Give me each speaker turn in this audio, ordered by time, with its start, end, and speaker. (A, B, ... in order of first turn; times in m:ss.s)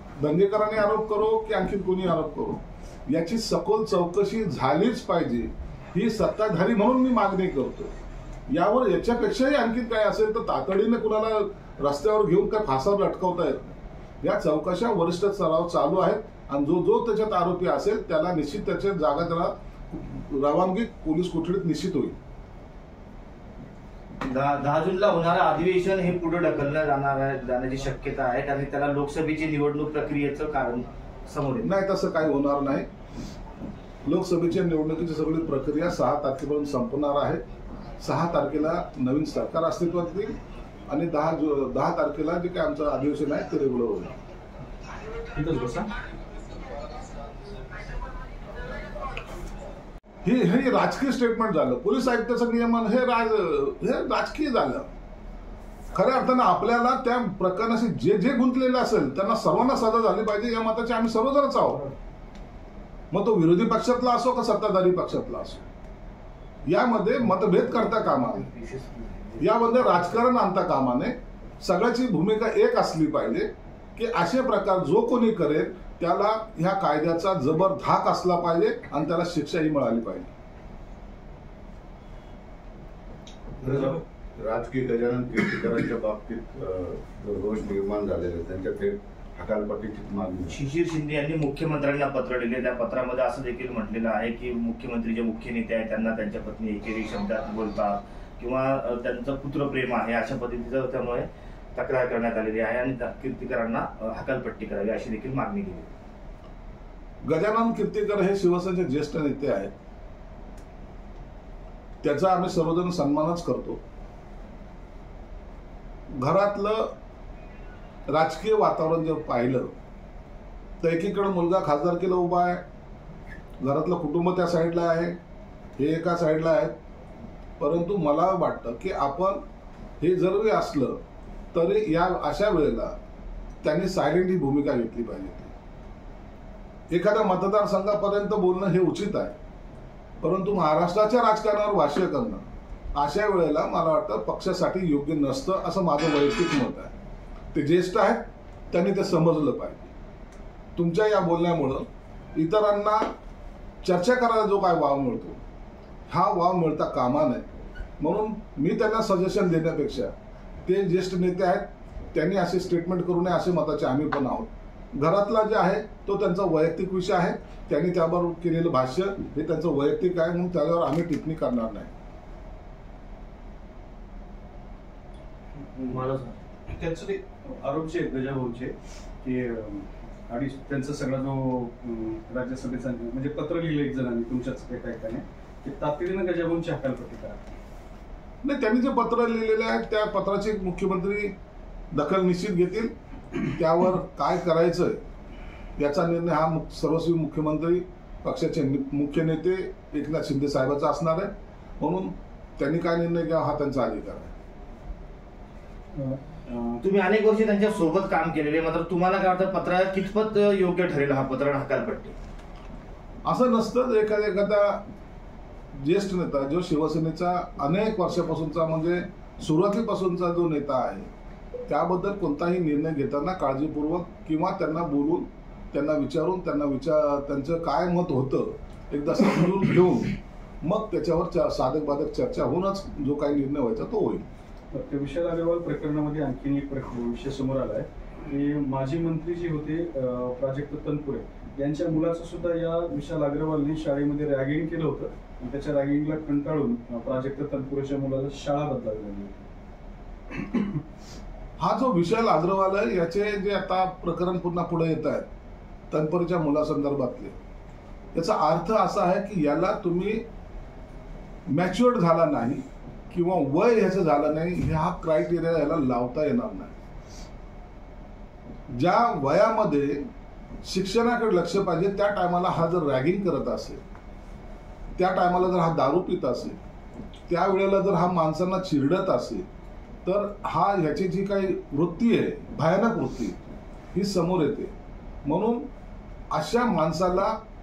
0:00.2-0:07.9 A
0:08.5-0:22.2 A
0:24.2-0:31.7 B
0:31.6-0:32.9 A
0:34.0-0:37.4 A
0:38.0-0:40.3 A
0:40.9-0:44.1 A
0:45.3-0:45.9 C
0:50.2-0:54.9 A
0:55.9-1:01.8 A
1:03.1-1:05.6 A
1:06.6-1:08.5 A
1:08.6-1:09.4 B
1:09.4-1:20.3 A
1:23.6-1:30.6 D
1:30.5-1:45.9 B
1:47.2-1:49.7 A
1:52.0-1:53.8 A
1:56.1-1:56.9 A
1:58.1-1:59.7 A
2:00.8-2:02.6 A
2:03.6-2:05.2 A
2:05.8-2:06.7 A
2:07.6-2:09.4 A
2:10.0-2:11.0 A
2:11.5-2:12.9 A
2:13.6-2:15.5 A
2:16.9-2:19.4 A
2:20.2-2:22.4 A
2:23.0-2:26.9 A
2:27.5-2:29.9 A
2:30.8-2:33.1 A
2:33.8-2:35.4 A
2:36.1-2:37.4 A
2:38.0-2:40.1 A
2:40.6-2:51.9 A
2:55.8-3:07.4 C
3:08.4-3:11.3 A
3:11.9-3:15.0 A
3:15.8-3:24.3 A
3:25.9-3:26.8 C
3:26.8-3:32.1 B
3:33.2-3:34.8 A
3:35.7-3:41.1 A
3:41.7-3:54.3 A
3:54.7-4:09.4 C
4:10.3-4:10.8 C
4:11.6-4:15.3 A
4:15.9-4:17.3 A
4:18.1-4:20.2 A
4:21.5-4:26.7 A
4:28.7-4:30.0 A
4:30.6-4:33.8 A
4:35.0-4:36.6 A
4:37.3-4:39.4 A
4:40.0-4:43.4 A
4:43.9-4:44.7 A
4:45.2-4:45.7 A
4:46.3-4:47.4 A